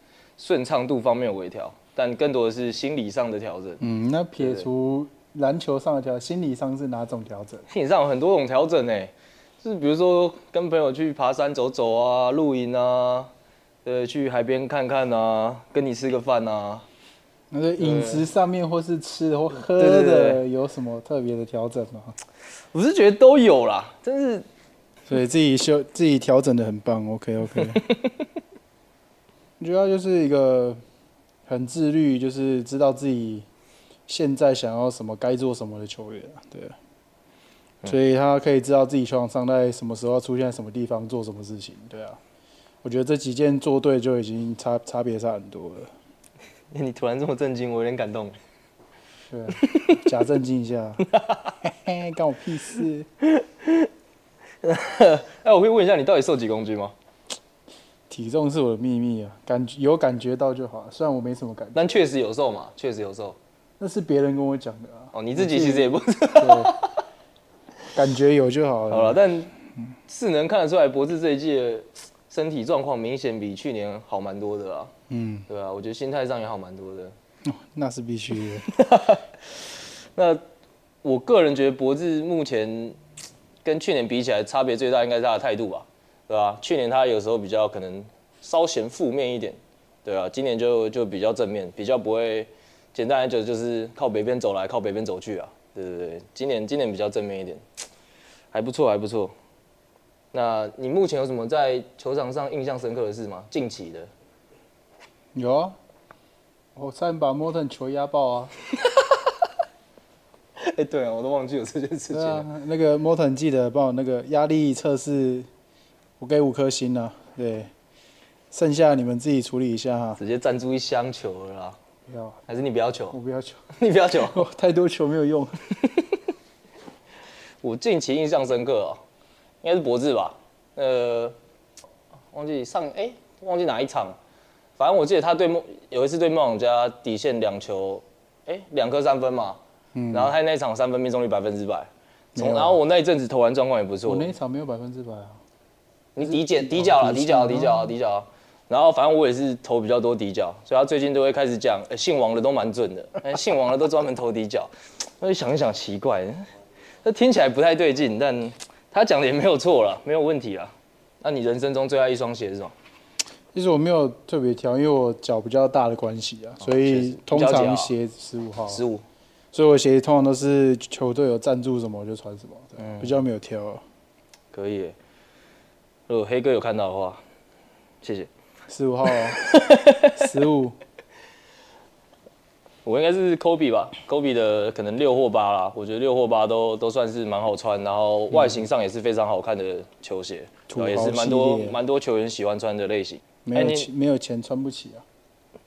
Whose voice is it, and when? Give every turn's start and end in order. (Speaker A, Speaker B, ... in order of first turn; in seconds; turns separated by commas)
Speaker A: 0.4-3.8, Speaker B: 3.8-7.7, Speaker A: 4.4-4.7, Speaker A: 7.7-13.3, Speaker A: 13.8-16.9, Speaker B: 17.5-22.1, Speaker A: 17.8-18.3, Speaker A: 19.5-20.4, Speaker A: 22.7-24.5, Speaker B: 25.1-27.9, Speaker A: 27.7-28.1, Speaker B: 29.6-30.8, Speaker B: 31.5-33.5, Speaker B: 34.1-36.8, Speaker B: 37.8-42.2, Speaker B: 42.8-45.9, Speaker A: 46.7-48.4, Speaker B: 49.3-51.1, Speaker A: 49.6-50.0, Speaker A: 51.1-51.5, Speaker B: 51.6-53.1, Speaker A: 53.4-53.9, Speaker A: 54.6-56.9, Speaker B: 58.1-61.9, Speaker A: 61.8-63.4, Speaker B: 63.8-66.7, Speaker A: 65.1-67.0, Speaker B: 67.9-69.2, Speaker A: 68.9-69.5, Speaker A: 70.1-74.9, Speaker B: 75.1-75.5, Speaker A: 75.5-77.2, Speaker B: 77.5-78.7, Speaker A: 78.6-80.4, Speaker A: 81.0-83.0, Speaker A: 83.6-97.6, Speaker A: 98.5-99.3, Speaker A: 100.3-104.1, Speaker B: 105.3-105.8, Speaker B: 106.8-108.5, Speaker A: 110.6-112.5, Speaker B: 112.1-115.5, Speaker B: 116.2-117.7, Speaker B: 118.5-120.2, Speaker A: 120.2-121.8, Speaker B: 122.1-122.4, Speaker A: 122.5-123.2, Speaker B: 123.1-125.6, Speaker A: 123.8-124.5, Speaker A: 127.6-129.0, Speaker A: 129.6-131.4, Speaker A: 132.3-134.2, Speaker A: 134.8-139.6, Speaker B: 139.9-140.3, Speaker A: 140.1-144.3, Speaker B: 142.4-142.8, Speaker B: 144.1-145.4, Speaker A: 146.2-156.4, Speaker B: 146.2-147.9, Speaker A: 157.0-162.7, Speaker B: 163.5-168.8, Speaker A: 166.6-167.9, Speaker A: 168.7-169.0, Speaker B: 169.5-173.8, Speaker A: 172.8-173.2, Speaker A: 174.5-175.0, Speaker A: 176.1-177.2, Speaker A: 178.0-178.3, Speaker B: 178.7-179.4, Speaker A: 179.3-180.2, Speaker B: 180.1-180.8, Speaker A: 182.8-193.9, Speaker B: 190.7-191.8, Speaker B: 193.4-195.1